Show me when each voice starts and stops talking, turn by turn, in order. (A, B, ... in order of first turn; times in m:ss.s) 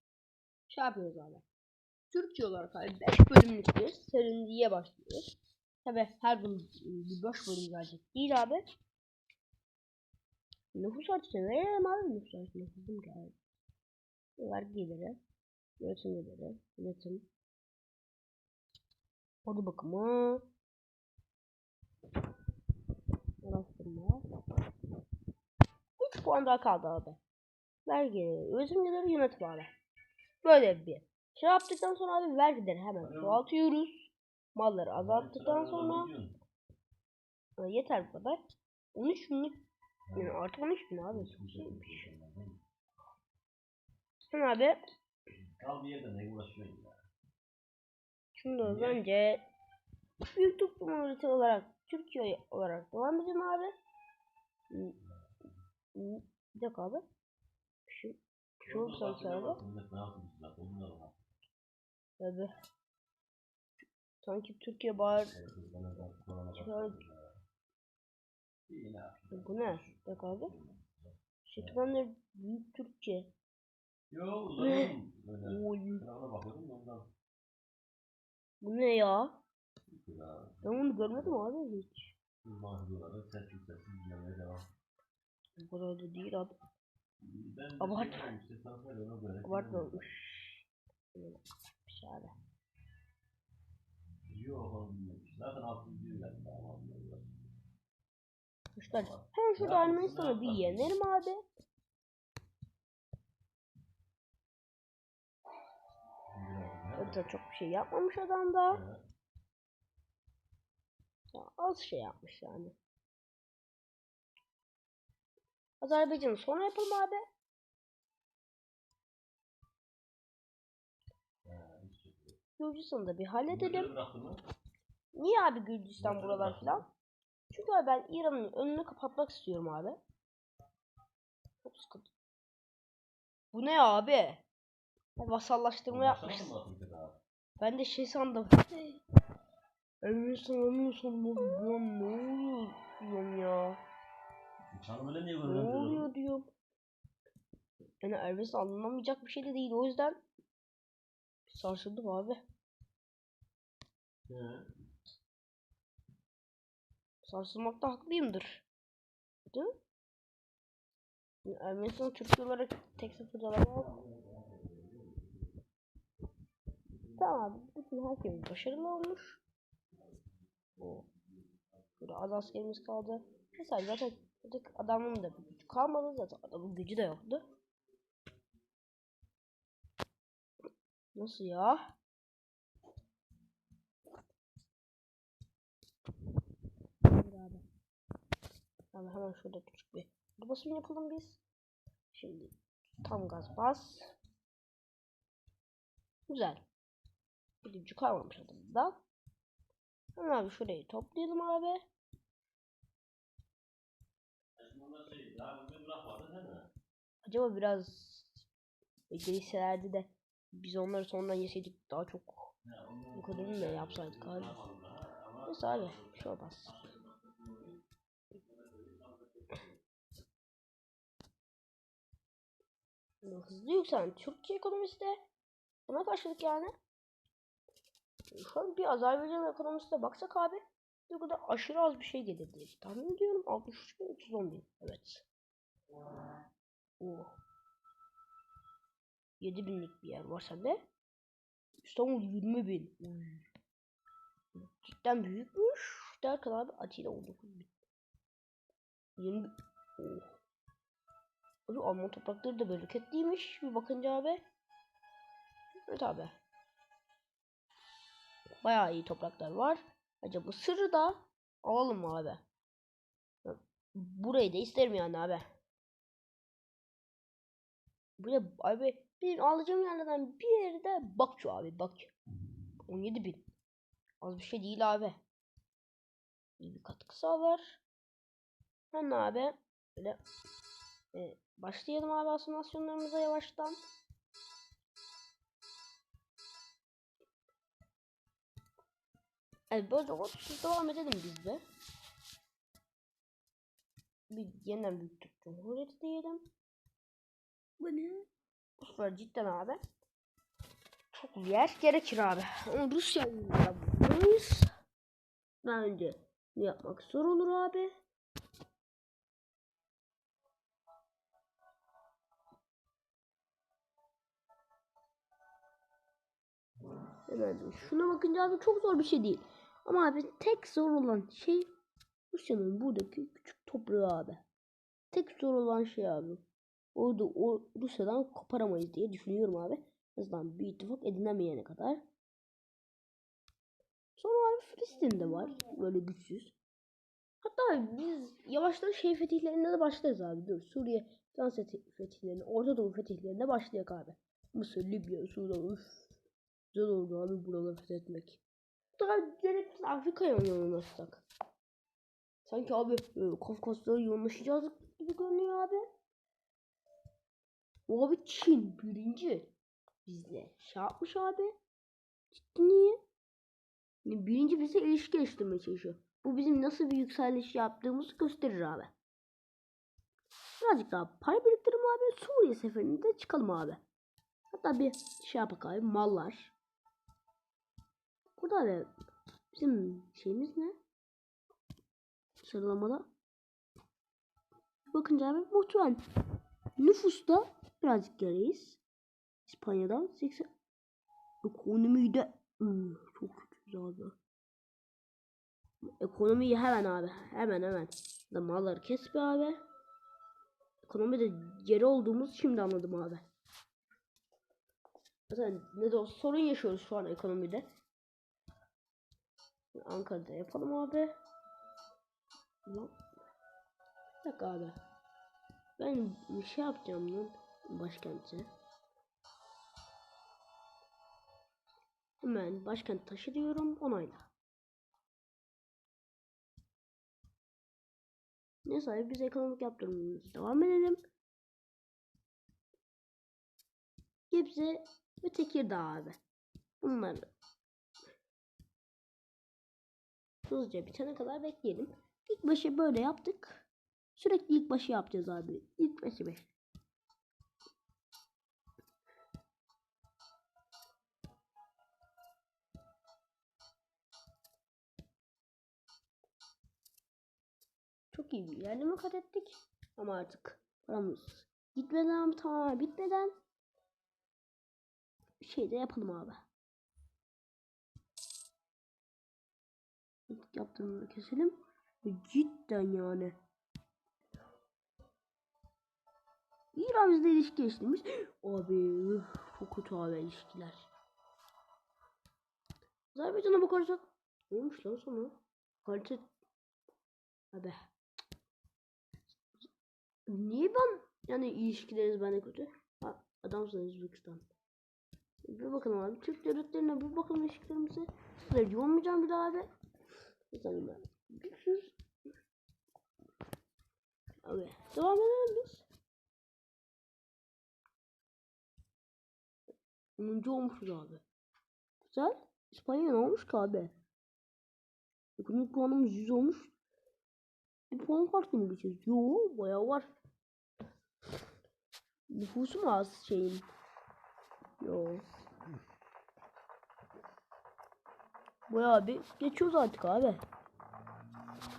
0:00.7-0:01.4 A
0:02.1-0:08.6 A
0:10.7-0:13.3 A
0:14.4-0:15.2 A
0:15.8-0:17.2 A
0:19.4-0:20.4 A
0:23.4-0:24.2 A
0:26.0-0:27.2 A
0:27.8-0:29.7 A
0:30.4-0:36.1 A
0:33.0-0:33.4 B
0:34.9-0:36.4 B
0:37.6-0:38.4 A
0:38.9-0:39.6 A
0:40.1-0:40.4 B
0:40.1-0:42.1 A
0:41.1-0:42.6 B
0:44.3-0:44.8 A
0:45.3-0:47.0 B
0:48.4-0:49.4 A
0:48.6-0:49.0 B
0:50.2-0:53.7 A
0:54.7-0:55.0 A
0:55.0-0:55.3 B
0:55.9-0:57.0 A
0:57.9-0:59.6 A
0:58.6-1:01.2 B
1:02.2-1:02.5 A
1:04.2-1:05.3 A
1:05.3-1:07.3 B
1:06.5-1:07.0 A
1:08.7-1:11.9 B
1:09.3-1:10.5 A
1:11.4-1:13.3 A
1:14.1-1:17.1 B
1:14.6-1:16.0 A
1:18.6-1:19.4 A
1:19.9-1:21.4 B
1:20.6-1:22.1 A
1:22.4-1:24.7 B
1:25.6-1:26.6 A
1:27.2-1:30.0 B
1:27.8-1:28.3 A
1:29.4-1:30.6 A
1:31.1-1:32.3 A
1:34.3-1:37.5 B
1:38.8-1:41.4 A
1:38.9-1:40.9 B
1:46.3-1:47.3 B
1:47.0-1:48.8 A
1:48.7-1:49.0 B
1:51.3-1:52.7 A
1:55.8-1:57.2 A
2:01.4-2:02.4 B
2:02.6-2:03.9 A
2:03.5-2:04.4 B
2:05.1-2:06.8 A
2:06.0-2:06.9 B
2:07.5-2:10.0 A
2:11.6-2:12.1 A
2:13.5-2:14.4 A
2:15.2-2:16.5 A
2:15.9-2:17.2 B
2:17.6-2:19.0 A
2:20.0-2:23.8 A
2:24.7-2:26.1 B
2:25.4-2:26.5 A
2:28.0-2:30.2 A
2:31.5-2:32.4 A
2:34.3-2:34.7 B
2:37.2-2:38.6 A
2:41.4-2:44.0 A
2:43.0-2:43.2 B
2:43.8-2:45.6 B
2:47.1-2:49.4 A
2:50.0-2:50.3 B
2:50.8-2:51.0 A
2:52.0-2:57.4 A
3:01.1-3:01.8 A
3:07.0-3:07.6 A
3:08.9-3:11.4 A
3:12.1-3:14.1 A
3:16.3-3:16.6 A
3:17.6-3:19.0 A
3:20.2-3:21.8 A
3:24.6-3:26.7 B
3:27.2-3:28.4 A
3:29.1-3:32.5 A
3:32.6-3:39.8 B
3:33.1-3:34.6 A
3:35.4-3:36.7 A
3:43.2-3:45.2 A
3:45.9-3:46.7 A
3:48.3-3:55.2 A
3:57.0-3:57.4 A
3:59.4-4:00.8 A
4:01.8-4:03.4 A
4:04.5-4:07.7 A
4:09.2-4:10.3 A
4:11.7-4:14.4 A
4:15.9-4:16.3 A
4:18.6-4:22.4 A
4:23.4-4:25.4 A
4:28.2-4:32.1 A
4:32.9-4:33.4 A
4:34.2-4:35.2 A
4:36.6-4:37.8 A
4:38.9-4:40.2 A
4:41.1-4:43.8 A
4:49.7-4:51.6 A
4:54.3-4:56.4 A
4:57.8-4:59.8 A
5:01.1-5:04.7 A
5:05.6-5:07.9 A
5:17.3-5:21.7 A
5:22.3-5:24.4 A
5:25.1-5:26.4 A
5:26.9-5:32.0 A
5:34.2-5:36.5 A
5:37.4-5:46.1 A
5:46.7-5:48.4 A
5:49.0-5:51.2 A
5:52.4-5:55.8 A
5:57.9-5:59.5 A
6:00.0-6:01.5 A
6:02.3-6:03.0 A
6:04.0-6:08.9 A
6:10.6-6:13.8 A
6:14.5-6:16.5 A
6:18.4-6:18.9 A
6:19.5-6:20.8 A
6:22.4-6:23.1 A
6:24.9-6:26.0 A
6:26.8-6:28.8 A
6:29.4-6:30.5 A
6:31.4-6:34.2 A
6:35.8-6:39.6 A
6:40.8-6:43.2 A
6:45.3-6:47.7 A
6:49.7-6:51.1 A
6:52.6-6:52.9 A
6:54.2-6:54.8 A
6:55.8-6:58.5 A
7:02.2-7:04.3 A
7:08.6-7:11.0 A
7:14.3-7:16.2 A
7:16.8-7:17.3 A
7:20.5-7:26.5 A
7:38.1-7:43.3 A
7:45.4-7:46.4 A
7:50.3-7:53.4 A
7:56.7-8:00.9 A
8:03.1-8:06.2 A
8:07.5-8:07.8 A
8:10.3-8:14.4 A
8:15.4-8:19.7 A
8:20.5-8:21.9 A
8:24.4-8:25.9 A
8:30.2-8:31.2 A
8:32.0-8:33.9 A
8:35.4-8:36.7 A
8:37.9-8:40.1 A
8:42.3-8:43.7 A
8:44.8-8:45.2 A
8:48.7-8:50.4 A